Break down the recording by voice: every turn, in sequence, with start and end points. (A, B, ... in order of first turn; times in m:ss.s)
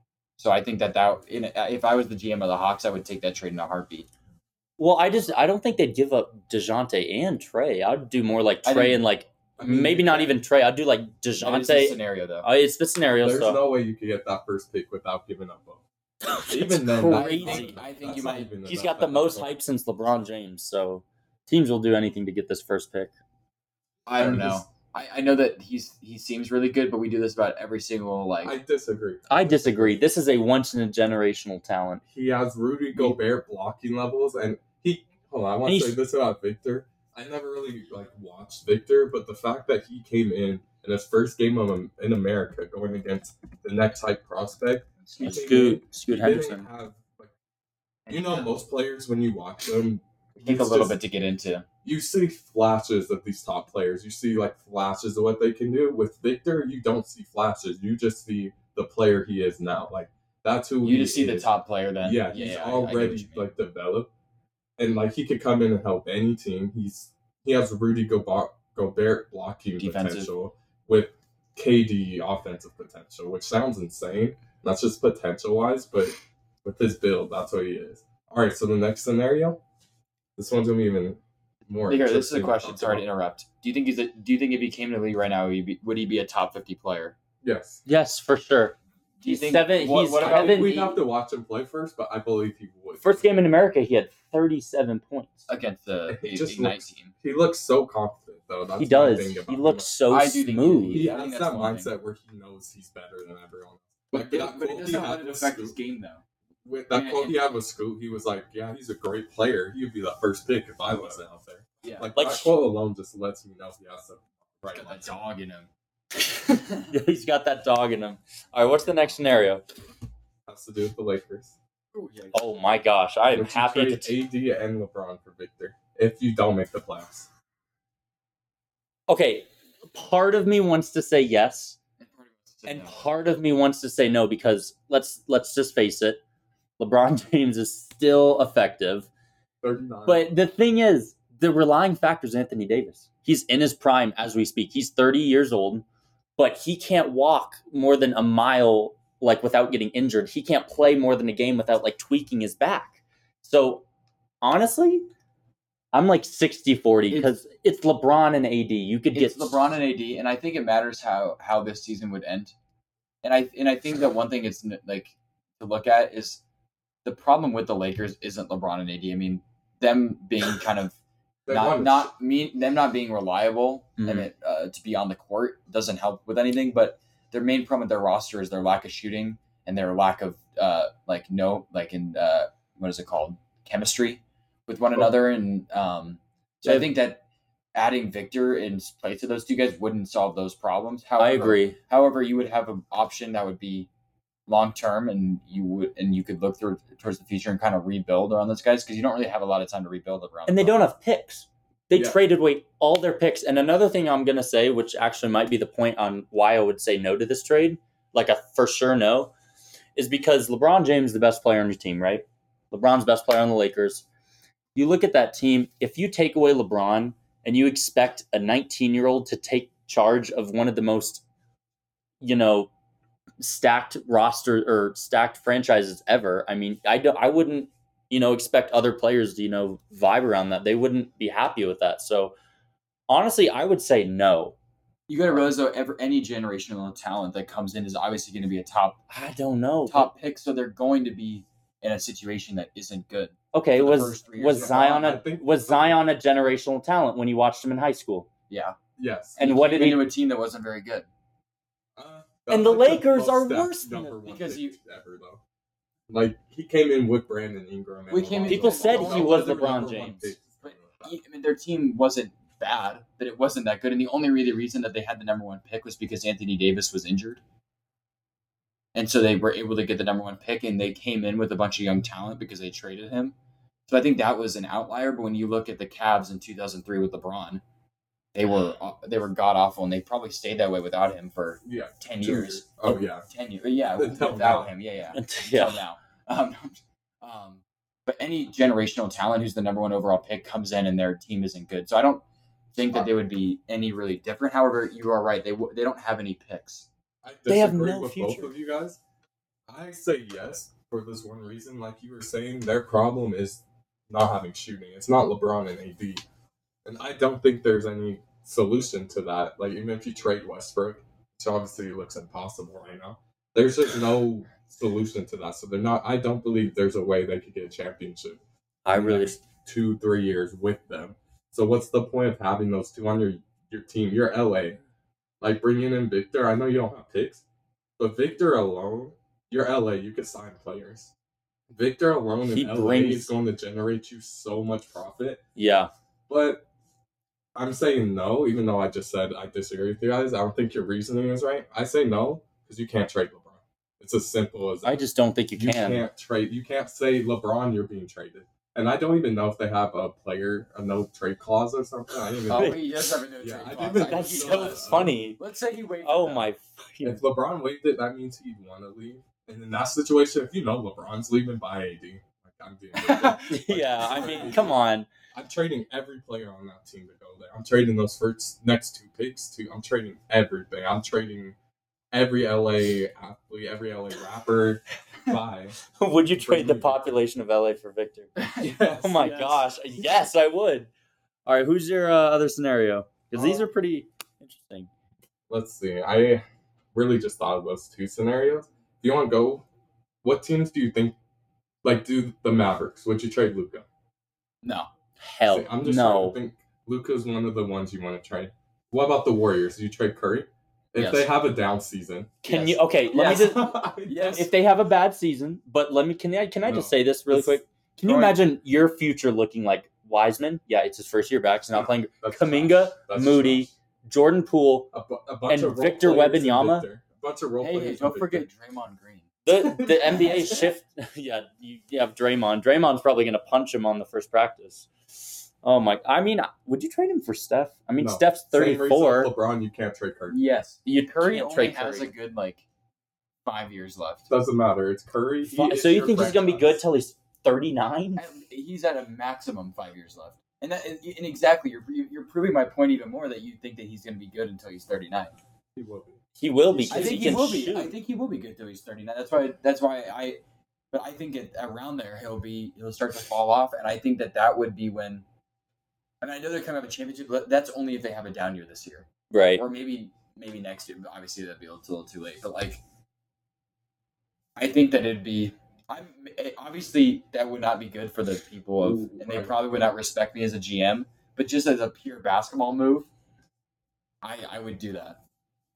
0:00.4-0:04.1 A
0:04.8-0:13.6 B
0:08.6-0:09.0 A
0:09.6-0:10.2 C
0:09.7-0:10.3 A
0:11.4-0:12.5 A
0:13.2-0:15.8 C
0:16.2-0:17.8 B
0:16.5-0:19.5 C
0:17.1-0:18.5 A
0:18.6-0:23.1 B
0:24.0-0:28.6 A
0:24.2-0:24.6 C
0:28.4-0:30.0 C
0:29.3-0:32.0 B
0:32.1-0:47.3 C
0:35.6-0:36.0 B
0:45.0-0:45.5 A
0:45.2-0:46.7 B
0:48.1-0:48.6 A
0:48.1-0:50.9 C
0:50.4-0:51.6 A
0:51.8-1:01.4 C
1:00.8-1:03.5 A
1:02.0-1:04.1 C
1:04.8-1:19.6 C
1:09.8-1:10.3 A
1:20.4-1:23.0 C
1:21.9-1:27.2 A
1:27.4-1:27.8 C
1:27.8-1:30.9 B
1:29.2-1:31.0 A
1:30.2-1:33.3 C
1:33.0-1:35.5 B
1:35.5-1:37.1 A
1:36.1-1:39.9 C
1:38.8-1:41.1 B
1:40.1-1:41.9 A
1:40.9-1:45.7 C
1:44.1-1:46.2 A
1:46.6-1:55.0 C
1:46.9-1:47.4 A
1:51.8-1:52.1 A
1:52.2-1:52.5 B
1:54.7-1:55.7 A
1:56.4-1:56.9 A
1:56.9-1:59.6 B
2:00.5-2:01.6 C
2:01.9-2:02.6 A
2:02.3-2:04.1 B
2:03.3-2:07.3 C
2:09.1-2:11.8 B
2:12.0-2:13.1 A
2:12.6-2:16.2 B
2:16.8-2:19.1 B
2:19.6-2:20.3 C
2:20.0-2:25.8 B
2:26.4-2:33.8 B
2:34.4-2:35.0 B
2:35.9-2:39.6 B
2:39.1-2:42.5 A
2:43.2-2:46.4 A
2:47.0-2:51.0 A
2:51.5-2:52.1 C
2:51.5-3:07.2 A
2:54.0-2:54.2 B
3:06.6-3:06.9 B
3:07.7-3:13.9 A
3:11.2-3:11.8 B
3:14.5-3:20.8 A
3:20.5-3:29.3 B
3:21.9-3:22.2 C
3:30.0-3:34.0 B
3:34.7-3:41.2 B
3:42.2-3:42.7 B
3:43.4-3:52.3 B
3:53.1-3:54.5 B
3:55.1-3:59.0 A
3:59.1-4:00.1 B
3:59.9-4:05.1 A
4:03.5-4:08.3 B
4:04.5-4:06.0 C
4:08.5-4:08.8 A
4:09.0-4:09.4 C
4:09.4-4:10.0 B
4:09.4-4:11.0 A
4:12.0-4:15.4 C
4:12.5-4:14.2 B
4:14.2-4:14.8 A
4:16.1-4:21.1 C
4:18.1-4:27.4 A
4:18.5-4:20.3 B
4:28.9-4:33.3 A
4:33.9-4:37.6 A
4:38.3-4:52.2 A
4:41.6-4:43.2 C
4:43.9-4:44.7 C
4:45.1-4:45.8 B
4:52.7-4:56.9 A
4:57.2-4:59.0 C
4:57.5-4:58.5 B
4:59.7-5:06.2 C
5:06.8-5:18.4 C
5:18.8-5:19.4 B
5:18.9-5:24.8 C
5:25.4-5:27.4 C
5:28.0-5:31.1 C
5:31.7-5:35.4 C
5:32.5-5:33.3 B
5:35.6-5:35.9 B
5:36.3-5:36.6 C
5:37.6-5:45.0 C
5:44.8-5:46.0 B
5:45.6-5:52.8 C
5:52.5-5:56.5 A
5:52.5-5:52.8 B
5:53.4-5:55.2 C
5:54.0-5:55.4 B
5:56.0-5:57.2 B
5:57.0-6:04.8 C
6:03.0-6:04.7 A
6:03.5-6:05.1 B
6:05.3-6:11.6 C
6:12.1-6:15.8 C
6:16.0-6:18.3 B
6:16.4-6:17.1 C
6:18.4-6:19.6 A
6:18.6-6:19.3 C
6:18.9-6:20.9 B
6:21.4-6:24.9 B
6:23.3-6:23.7 C
6:25.5-6:29.6 C
6:30.2-6:31.2 C
6:31.8-6:33.8 C
6:34.6-6:34.9 A
6:35.2-6:36.3 B
6:35.5-6:42.4 C
6:41.0-6:41.2 A
6:42.4-6:54.9 B
6:42.5-6:44.4 A
6:43.2-6:44.4 C
6:46.6-6:48.4 C
6:51.7-6:53.7 C
6:54.9-6:58.5 C
6:55.5-6:56.8 B
6:57.6-6:59.3 A
6:59.4-7:04.9 B
6:59.5-7:00.6 C
7:00.3-7:00.7 A
7:05.6-7:09.3 B
7:08.0-7:10.4 C
7:10.3-7:12.6 A
7:10.9-7:12.1 B
7:13.4-7:14.3 A
7:14.3-7:16.8 C
7:15.5-7:18.2 B
7:18.2-7:25.4 A
7:25.8-7:27.4 C
7:26.4-7:27.9 B
7:26.9-7:30.4 A
7:30.9-7:35.2 A
7:36.2-7:42.8 A
7:39.3-7:39.6 B
7:44.6-7:53.1 A
7:48.8-7:49.6 C
7:54.2-7:55.2 A